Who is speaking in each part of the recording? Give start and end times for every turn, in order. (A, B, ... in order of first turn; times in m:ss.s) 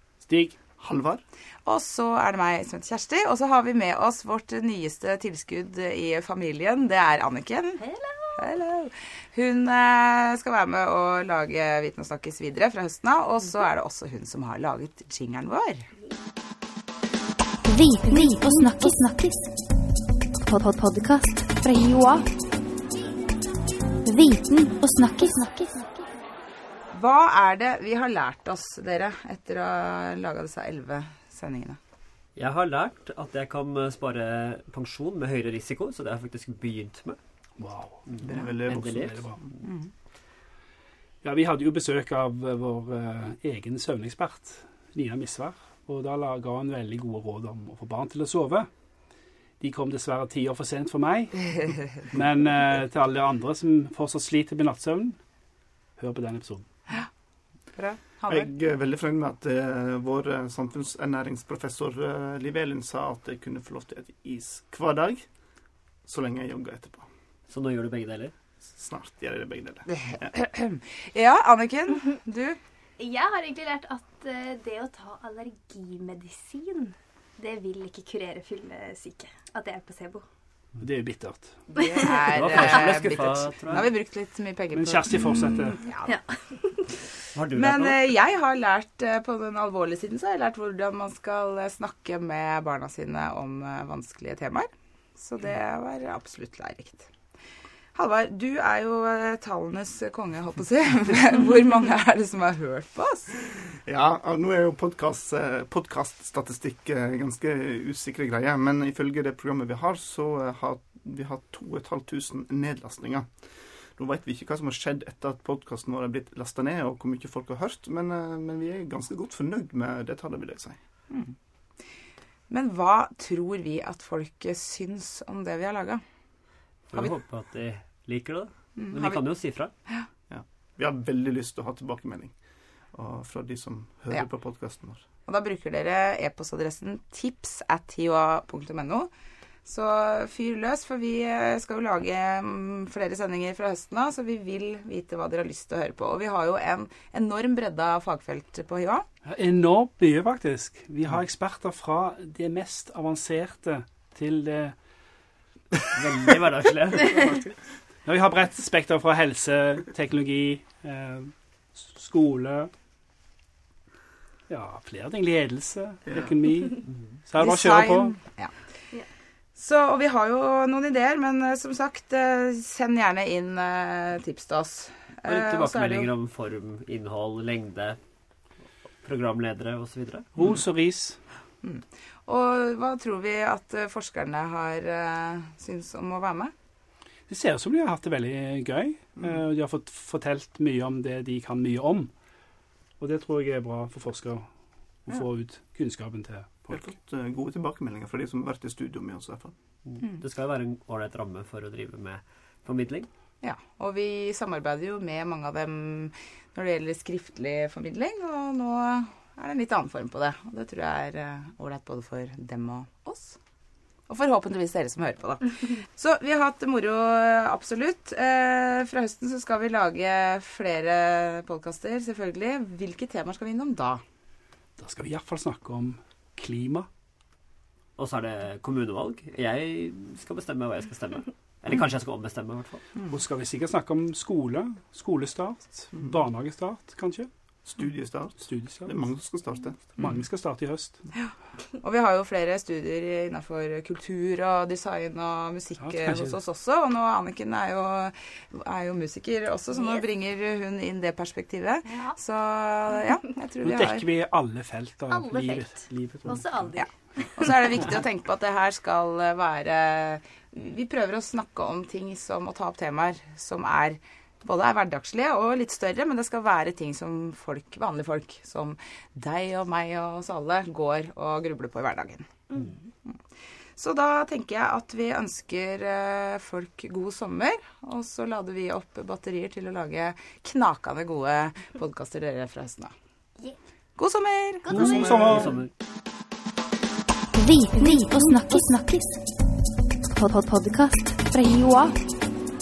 0:00.2-0:00.6 A
0:00.8-0:01.2 B
0:01.6-0:07.8 C
0:07.8-0:08.2 D
0:08.4-0:15.9 C
0:17.7-0:19.5 E
0:20.4-0:22.2 E
0:24.0-0:25.8 E
0:26.9-0:31.8 C
0:32.4-0:37.2 F
0:37.6-0:39.4 A
0:38.1-0:39.2 F
0:38.2-0:39.1 B
0:39.6-0:39.9 C
0:41.2-0:48.7 A
0:49.6-0:55.2 A
0:56.0-0:56.6 A
0:57.7-0:58.5 C
0:58.3-1:05.3 B
1:06.0-1:07.1 B
1:07.5-1:08.3 F
1:08.6-1:10.3 B
1:10.1-1:12.6 C
1:13.0-1:20.2 D
1:20.8-1:21.6 A
1:21.8-1:26.2 C
1:21.8-1:22.1 D
1:22.1-1:23.9 F
1:24.7-1:25.9 A
1:26.0-1:26.9 D
1:27.3-1:28.0 F
1:27.5-1:37.1 C
1:37.9-1:43.4 C
1:43.8-1:53.3 B
1:54.0-2:00.8 B
2:02.5-2:06.0 C
2:06.9-2:09.7 F
2:08.8-2:09.2 C
2:10.3-2:12.3 B
2:12.9-2:15.0 B
2:15.3-2:19.1 C
2:19.6-2:29.0 C
2:29.2-2:34.7 A
2:35.9-2:37.5 F
2:38.0-2:42.7 A
2:44.5-2:48.2 A
2:47.4-2:48.5 C
2:49.5-2:56.1 C
2:55.2-2:58.0 F
2:59.0-3:00.3 F
3:00.4-3:01.2 A
3:01.6-3:06.5 C
3:07.3-3:12.1 A
3:13.0-3:14.5 A
3:15.0-3:16.9 A
3:16.7-3:19.5 B
3:19.8-3:23.1 F
3:23.4-3:33.4 C
3:34.1-3:44.0 C
3:44.8-3:46.9 A
3:48.0-3:52.9 F
3:53.1-3:57.3 A
3:57.6-3:59.8 B
3:58.4-3:59.0 A
4:00.0-4:01.0 A
4:01.1-4:14.1 C
4:05.8-4:06.4 A
4:09.7-4:10.0 D
4:13.6-4:16.6 A
4:15.1-4:16.9 D
4:17.4-4:32.3 C
4:33.8-4:42.9 C
4:44.0-4:45.0 C
4:44.7-4:45.5 A
4:44.7-4:45.5 D
4:45.0-4:45.7 F
4:47.3-4:49.2 E
4:50.1-4:51.9 E